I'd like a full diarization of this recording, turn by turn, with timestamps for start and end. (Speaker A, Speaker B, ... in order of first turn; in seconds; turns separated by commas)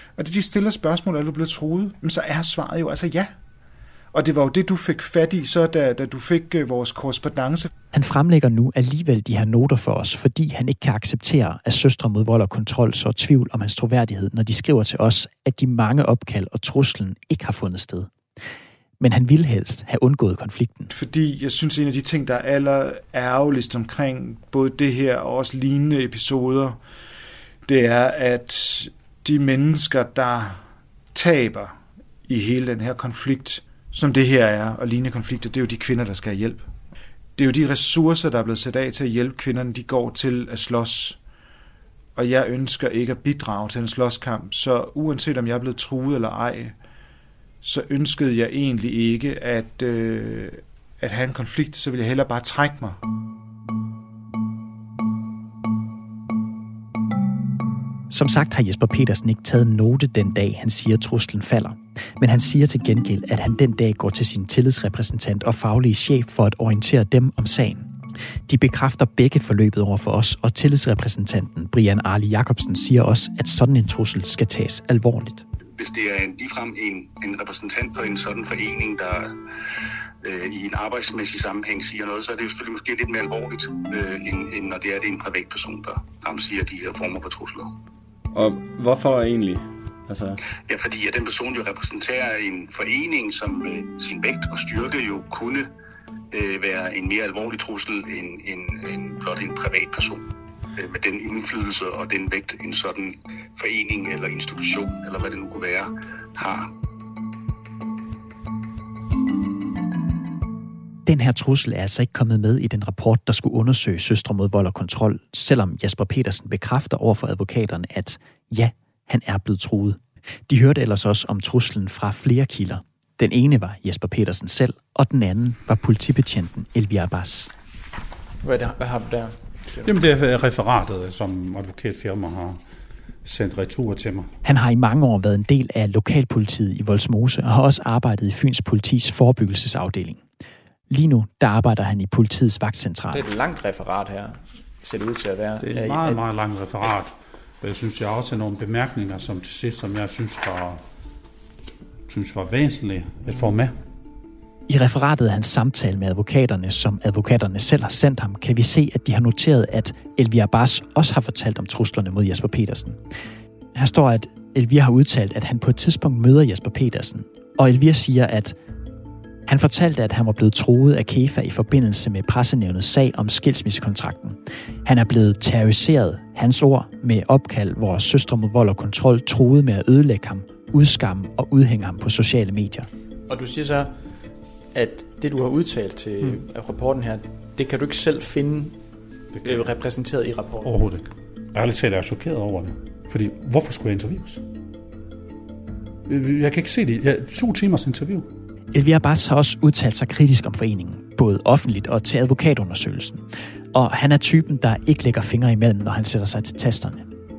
Speaker A: 0.2-3.3, Speaker A: 4.1-7.7, Speaker B: 7.9-18.1, Speaker B: 19.0-20.9, Speaker A: 20.9-26.8, Speaker A: 27.7-30.6, Speaker A: 31.1-31.8, Speaker A: 32.3-36.7, Speaker A: 37.4-41.2, Speaker A: 42.2-46.8, Speaker A: 47.6-53.0, Speaker B: 58.1-67.9, Speaker B: 68.5-75.5, Speaker C: 75.8-79.3, Speaker C: 80.2-87.7, Speaker D: 88.3-90.4, Speaker C: 90.7-95.7, Speaker C: 96.3-100.2, Speaker C: 100.8-106.7, Speaker B: 111.1-127.5, Speaker E: 128.4-129.9, Speaker F: 129.8-132.6, Speaker F: 133.2-134.3, Speaker B: 134.4-140.2, Speaker B: 140.9-143.2, Speaker E: 143.1-146.2, Speaker F: 145.6-150.8, Speaker F: 152.1-153.8, Speaker B: 154.7-163.0, Speaker B: 163.7-168.6, Speaker B: 169.5-182.9, Speaker E: 183.3-183.9, Speaker E: 184.7-188.8, Speaker F: 189.4-189.7, Speaker E: 189.4-190.7, Speaker F: 190.6-194.4, Speaker F: 196.1-198.3, Speaker B: 198.7-207.1